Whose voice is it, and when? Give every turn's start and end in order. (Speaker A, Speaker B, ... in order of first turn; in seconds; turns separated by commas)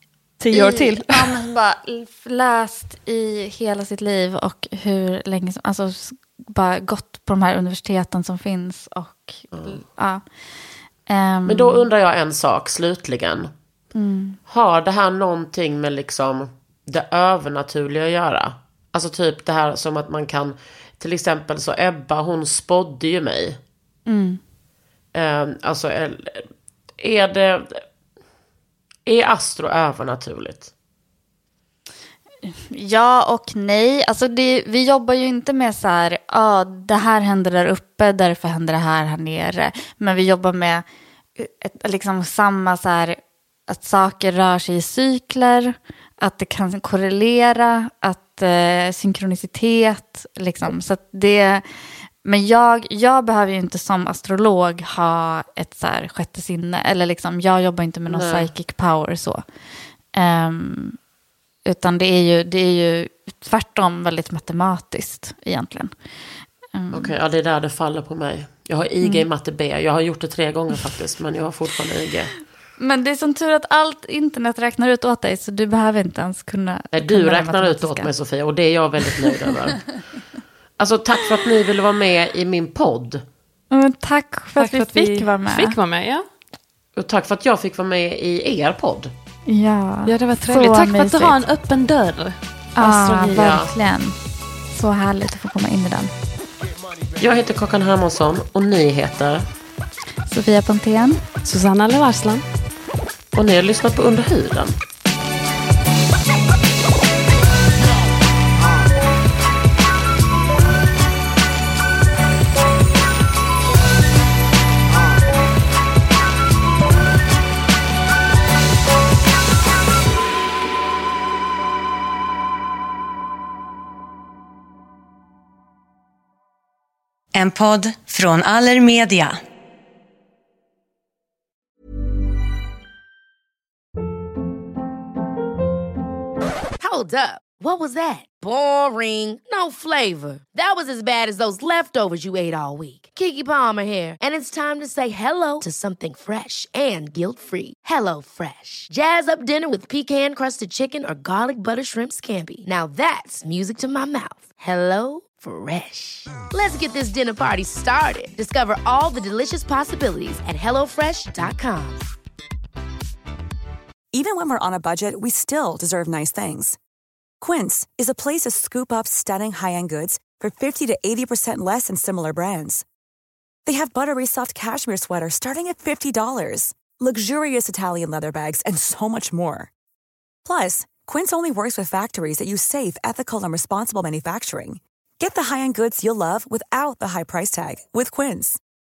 Speaker A: 0.4-1.4, Speaker B: 0.5-10.2, Speaker C: 9.5-9.8, Speaker B: 11.1-11.8, Speaker C: 11.5-13.5, Speaker B: 13.9-14.4, Speaker C: 14.5-23.6, Speaker B: 24.1-24.4, Speaker C: 25.1-27.8, Speaker C: 29.1-30.7, Speaker B: 32.5-40.9, Speaker B: 41.4-51.6, Speaker B: 52.2-59.4, Speaker C: 58.1-58.5, Speaker B: 60.1-61.0, Speaker B: 61.7-65.9, Speaker B: 66.7-67.2, Speaker C: 66.9-72.3, Speaker B: 72.8-78.1, Speaker C: 76.9-79.8, Speaker C: 80.8-83.2, Speaker B: 83.7-85.8, Speaker A: 84.6-86.2, Speaker C: 87.0-89.1, Speaker B: 89.5-91.4, Speaker A: 90.1-93.3, Speaker B: 92.8-94.2, Speaker C: 93.2-93.7, Speaker B: 94.7-96.1, Speaker C: 97.2-99.5, Speaker B: 100.3-101.2, Speaker A: 101.5-102.4, Speaker C: 103.3-104.8, Speaker D: 127.3-129.4, Speaker E: 136.8-162.0, Speaker F: 164.1-166.8, Speaker F: 167.4-172.8, Speaker F: 173.7-179.7, Speaker F: 180.4-188.6